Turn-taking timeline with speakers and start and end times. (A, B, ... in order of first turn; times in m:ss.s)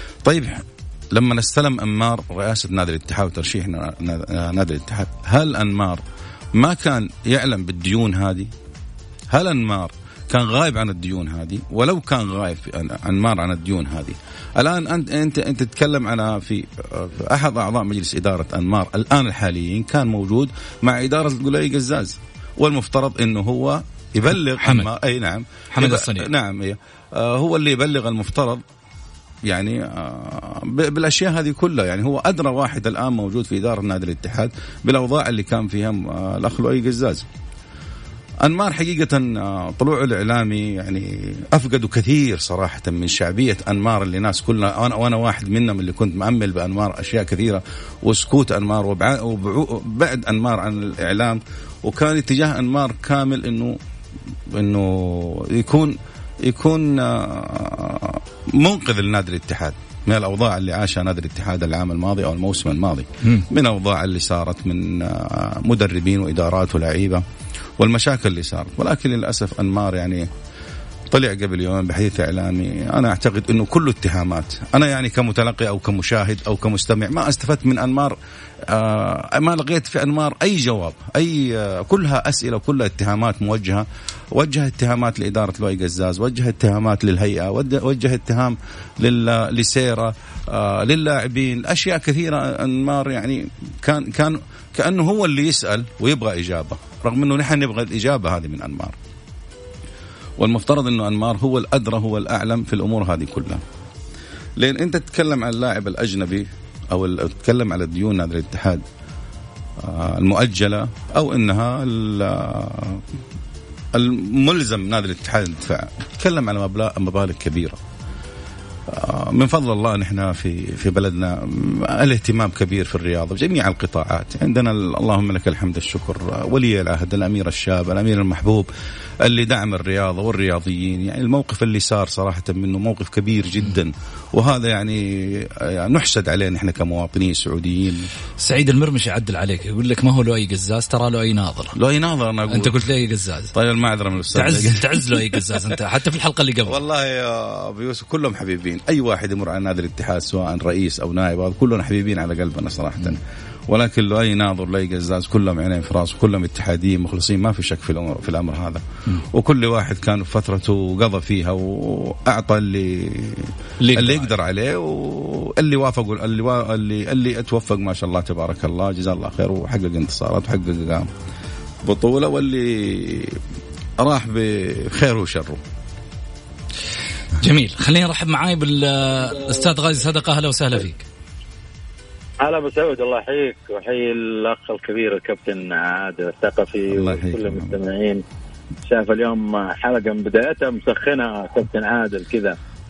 0:00.2-0:06.0 A
0:06.6-0:08.5 A
0:09.3-0:28.6 A
0:24.6-0:24.9 B
0:25.7-0:26.3 B
0:29.5-0:37.3 A
0:38.4-0:53.8 A
0:54.5-1:07.2 A
1:07.8-1:10.3 A
1:11.1-1:18.2 A
1:18.7-1:39.0 A
1:40.4-1:43.6 A
1:44.6-1:48.8 A
1:49.8-1:53.0 A
1:53.9-1:57.8 A
1:58.9-2:08.7 A
2:09.2-2:18.1 A
2:18.4-2:21.8 B
2:21.8-2:22.9 A
2:22.5-2:23.6 B
2:23.5-2:25.6 A
2:24.3-2:26.8 B
2:26.7-2:51.1 A
2:43.8-2:44.3 B
2:51.8-2:53.4 A
2:54.0-2:55.6 A
2:57.4-3:01.1 B
3:02.4-3:08.2 C
3:06.9-3:07.8 A
3:08.9-3:12.6 C